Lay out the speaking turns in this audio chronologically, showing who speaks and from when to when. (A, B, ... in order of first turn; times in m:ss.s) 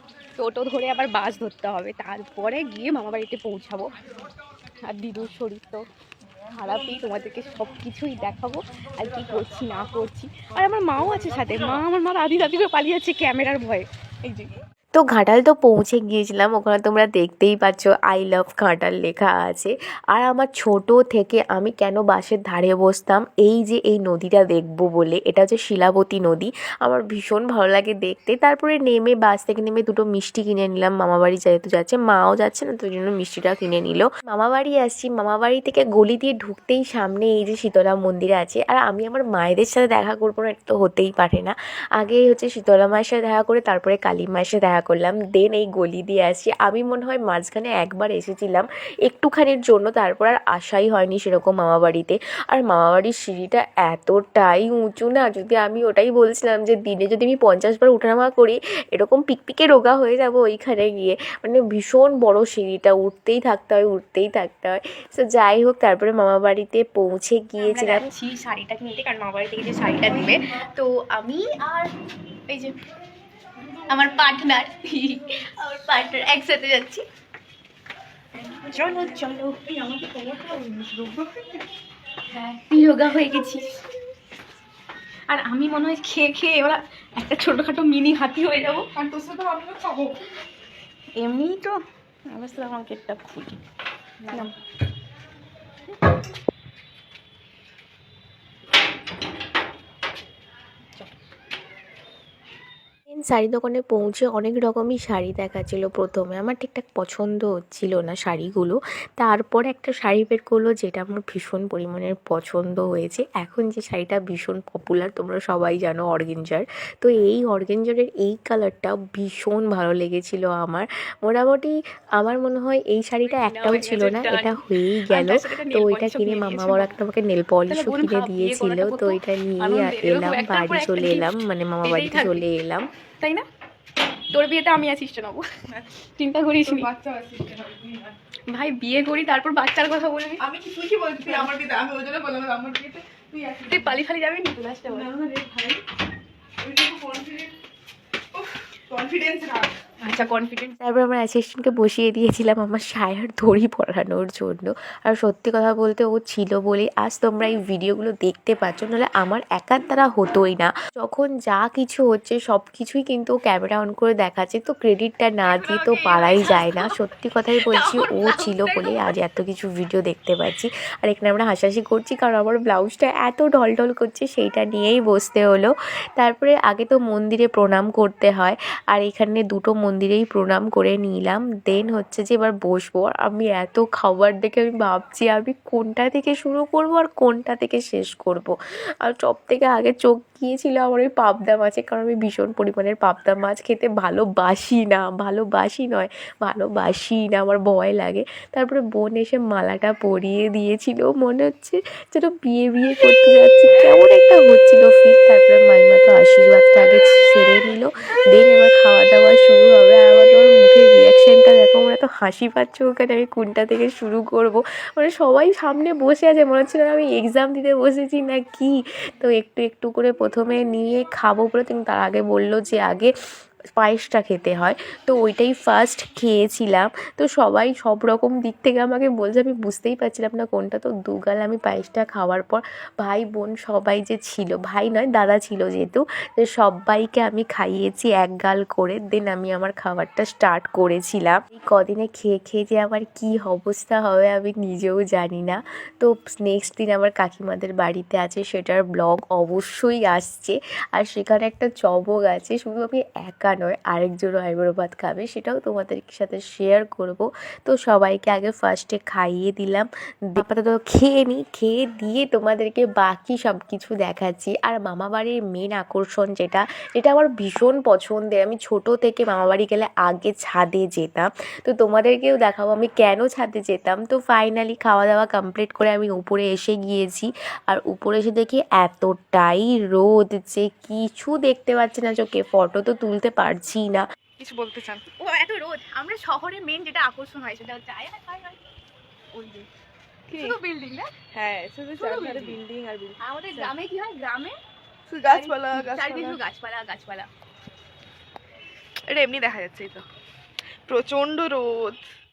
0:00.4-0:03.9 A
0:04.8-0:05.8 A
0:06.5-0:14.6 A
0:14.9-1:08.1 B
1:07.6-1:11.9 A
1:12.5-1:12.7 A
1:13.9-1:17.0 A
1:18.7-1:21.3 A
1:22.3-1:23.7 A
1:25.3-1:28.9 A
1:29.0-1:30.2 C
1:31.2-1:31.8 A
1:32.3-1:33.6 A
1:34.2-1:34.5 A
1:43.1-2:12.8 B
2:03.2-2:07.0 A
2:07.7-2:11.3 A
2:11.8-2:12.4 A
2:13.2-2:13.4 A
2:14.3-2:15.5 A
2:16.2-2:16.9 A
2:16.6-2:18.2 C
2:18.5-2:20.4 A
2:20.4-2:24.0 C
2:23.7-2:25.1 A
2:24.9-2:25.8 C
2:26.6-2:27.5 C
2:28.3-2:29.8 C
2:30.0-2:30.7 A
2:30.8-3:43.1 B
2:45.4-2:46.9 A
2:47.7-2:49.1 A
3:43.8-4:44.0 B
4:44.4-4:45.1 C
4:45.2-4:48.6 A
4:49.3-4:49.7 A
4:50.3-4:51.0 A
4:50.3-4:53.7 C
4:52.0-4:52.6 A
4:53.2-4:54.6 A
4:55.1-4:56.4 C
4:55.3-4:57.3 A
4:59.1-5:00.0 C
5:00.9-5:02.0 C